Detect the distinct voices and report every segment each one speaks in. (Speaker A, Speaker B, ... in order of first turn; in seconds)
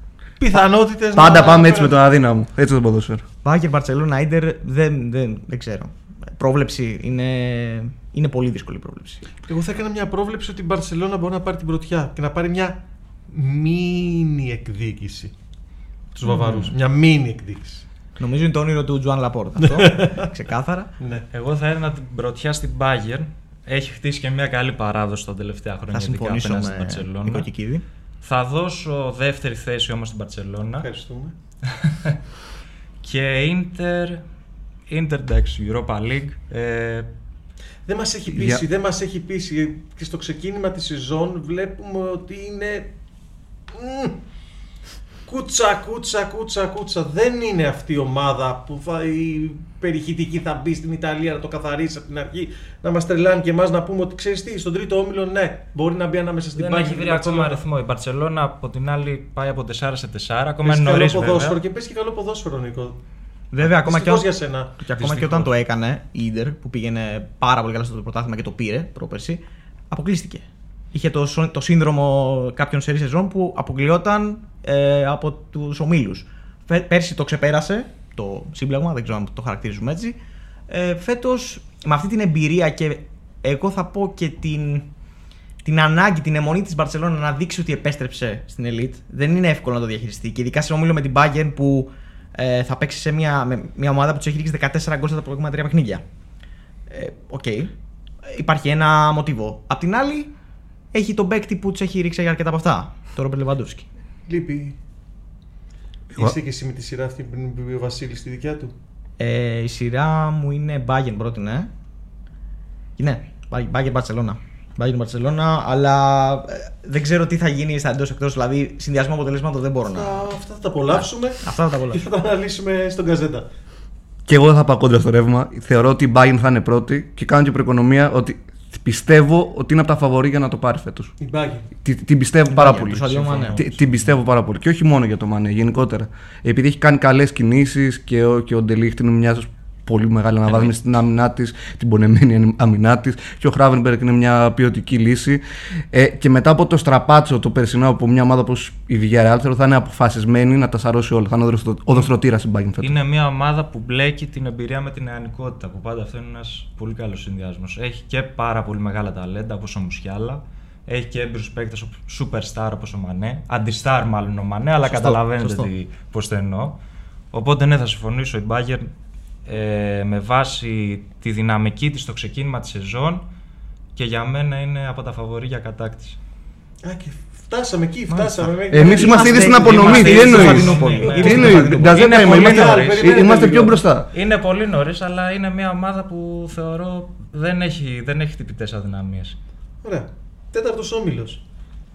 Speaker A: 0.4-1.9, 9.5-15.3, 16.1-17.8, 19.6-20.3, 21.0-21.2, 30.8-31.3, 37.9-42.9, 43.7-44.2, 45.2-57.6, 60.6-63.0, 63.6-65.5, 104.3-104.8, 106.2-108.7, 119.8-123.5, 131.2-131.7, 176.8-183.8, 189.8-191.4
Speaker B: 1.1-3.2, 38.3-38.6, 124.3-131.1, 131.8-152.9, 178.7-184.1
Speaker C: 3.4-9.2, 18.2-20.9, 25.9-27.8, 63.5-80.2, 80.7-84.9, 85.6-96.0, 96.9-97.7, 98.2-100.3, 100.9-103.9, 109.2-111.7, 113.0-120.3, 120.9-122.0, 132.5-133.6, 164.8-165.7, 178.1-182.1
Speaker D: 16.3-16.7, 21.3-27.5, 28.2-30.9, 31.7-32.2, 33.0-34.2, 34.9-37.1, 56.5-61.6, 152.8-166.8, 167.3-168.9, 169.4-173.2, 173.9-176.2, 179.6-183.2, 184.1-189.3